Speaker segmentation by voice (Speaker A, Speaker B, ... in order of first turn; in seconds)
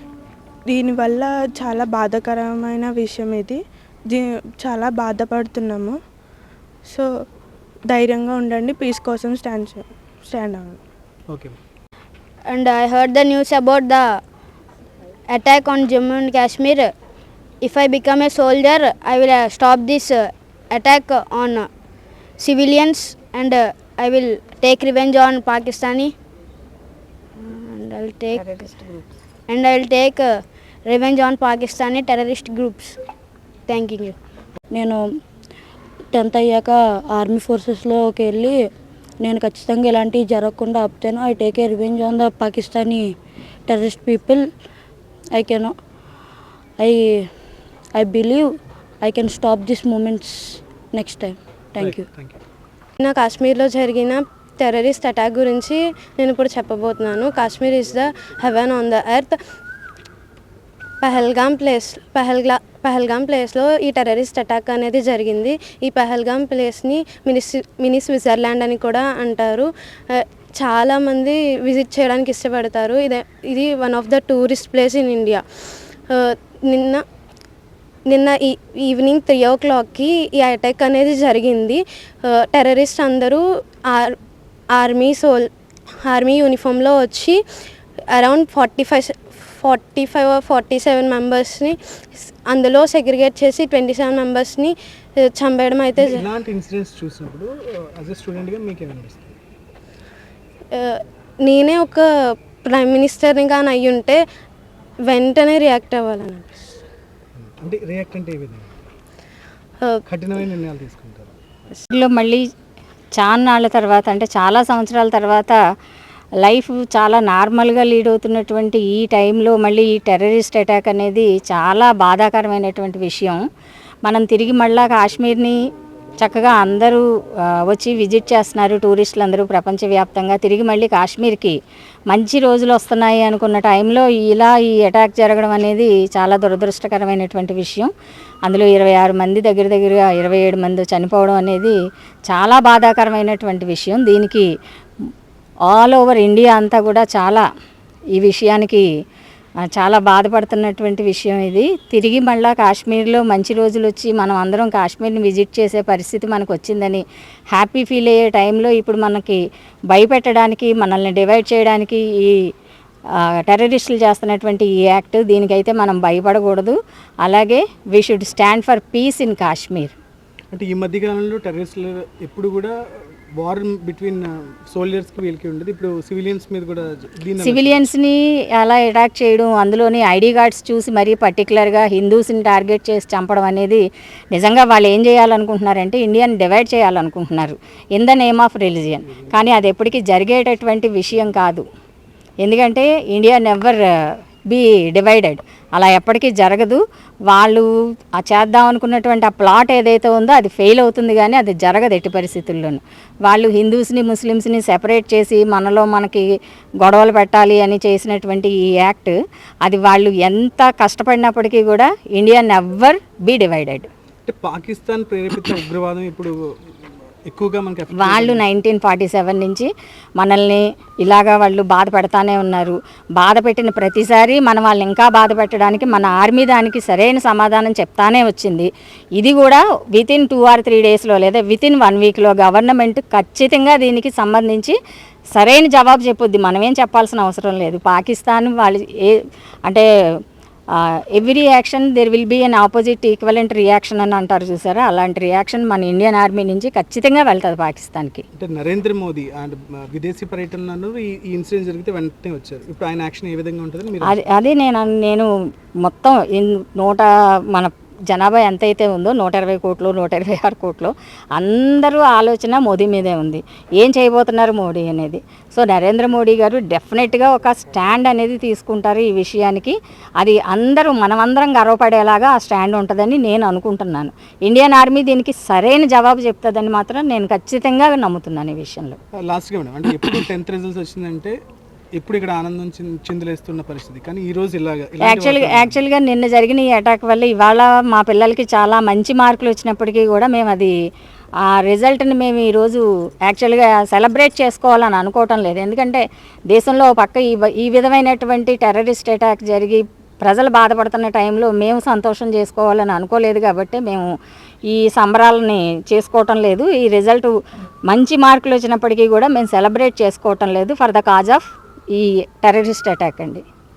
Speaker A: 0.7-6.0, 6.8-7.2, 7.9-10.8
Speaker B: 11.3-11.6, 51.8-52.4, 96.0-99.4, 107.3-108.7, 110.1-111.3, 170.5-172.7, 173.4-177.8, 214.2-216.3, 217.3-218.4, 248.3-254.2, 279.1-281.4, 281.9-285.8
Speaker C: 12.4-14.2, 15.3-16.9, 17.6-21.7, 22.4-26.1, 27.4-28.5, 29.5-33.0, 33.7-34.2
Speaker D: 28.3-29.0, 111.8-112.4, 113.2-115.5, 116.4-123.4, 124.0-125.6, 126.2-131.6, 132.1-137.9, 138.4-141.8, 142.3-144.5, 145.7-147.4, 148.1-148.8, 149.7-162.5, 163.3-169.9, 177.4-191.6, 192.4-193.8, 194.5-197.7, 198.2-206.3, 206.8-213.9, 218.0-234.8, 235.3-239.8, 240.8-248.2, 254.0-255.3, 255.8-279.0, 285.0-290.7, 291.4-304.1, 304.7-307.3, 307.9-313.4
Speaker E: 34.7-35.0, 36.1-38.6, 39.2-43.1, 43.7-44.5, 45.3-45.7, 46.8-47.3, 47.9-52.0
Speaker F: 53.0-59.4, 61.0-77.0, 78.1-84.1, 84.7-85.5, 86.0-87.4, 88.1-96.2, 100.7-102.0, 102.6-104.2, 105.1-106.8